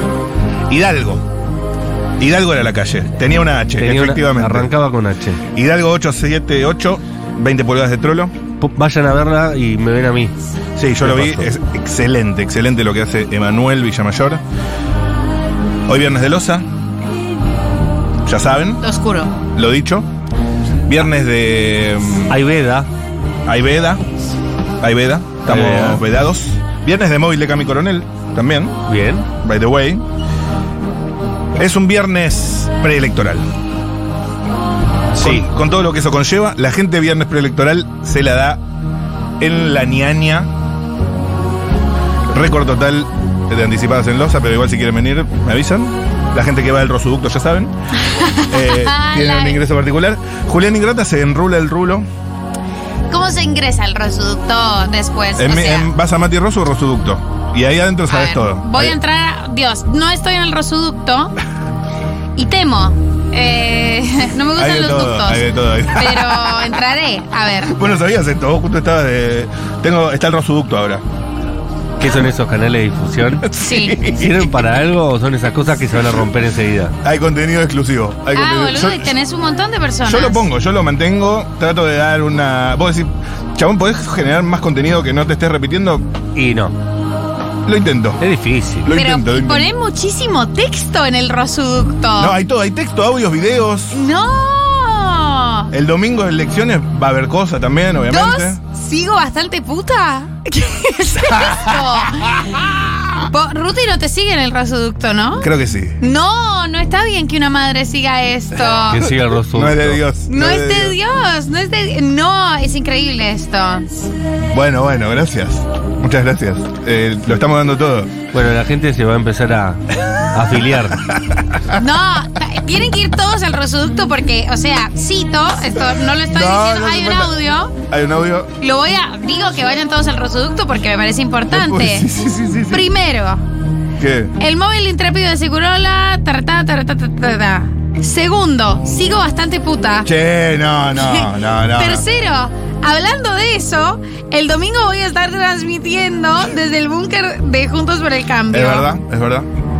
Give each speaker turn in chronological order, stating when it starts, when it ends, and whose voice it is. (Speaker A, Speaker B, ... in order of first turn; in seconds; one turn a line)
Speaker A: 0.7-1.3
Speaker A: 2.2-4.7
Speaker B: 3.8-5.4
Speaker A: 5.5-8.3
Speaker B: 8.6-10.3
Speaker A: 10.8-14.4
Speaker B: 11.0-11.5
Speaker A: 15.9-16.7
Speaker A: 18.2-18.8
Speaker C: 18.8-19.3
Speaker A: 19.5-20.1
Speaker A: 20.9-22.3
Speaker B: 22.3-22.9
Speaker A: 23.4-24.0
Speaker A: 24.8-28.8
Speaker B: 25.4-26.0
Speaker B: 28.9-29.3
Speaker A: 29.4-30.0
Speaker A: 31.6-33.5
Speaker B: 35.1-35.5
Speaker A: 35.2-38.6
Speaker A: 39.4-40.5
Speaker A: 42.3-47.7
Speaker C: 48.0-49.6
Speaker A: 48.5-52.1
Speaker C: 53.1-55.9
Speaker A: 55.4-59.0
Speaker C: 58.1-61.3
Speaker C: 62.4-67.7
Speaker A: 64.6-66.7
Speaker A: 67.7-71.0
Speaker B: 72.0-73.5
Speaker A: 73.4-74.6
Speaker C: 73.6-74.0
Speaker B: 74.0-77.0
Speaker A: 77.0-79.1
Speaker C: 78.3-80.4
Speaker A: 80.0-86.1
Speaker B: 86.3-86.7
Speaker A: 87.6-88.2
Speaker B: 88.2-88.9
Speaker A: 88.8-89.7
Speaker C: 88.9-92.3
Speaker A: 92.2-94.0
Speaker C: 93.9-95.7
Speaker A: 95.7-98.6
Speaker C: 98.1-102.6
Speaker A: 101.3-101.8
Speaker C: 103.2-105.5
Speaker A: 105.4-106.0
Speaker C: 106.0-109.0
Speaker B: 108.9-110.0
Speaker A: 109.5-111.0
Speaker C: 110.3-113.9
Speaker A: 114.5-118.1
Speaker B: 118.3-121.0
Speaker A: 121.0-121.8
Speaker C: 121.7-127.8
Speaker A: 126.3-127.3
Speaker A: 127.9-128.5
Speaker C: 128.6-132.1
Speaker A: 131.5-132.9
Speaker C: 132.7-133.4
Speaker A: 134.0-134.3
Speaker C: 134.4-140.1
Speaker A: 140.0-142.0
Speaker C: 140.9-148.9
Speaker A: 148.5-149.5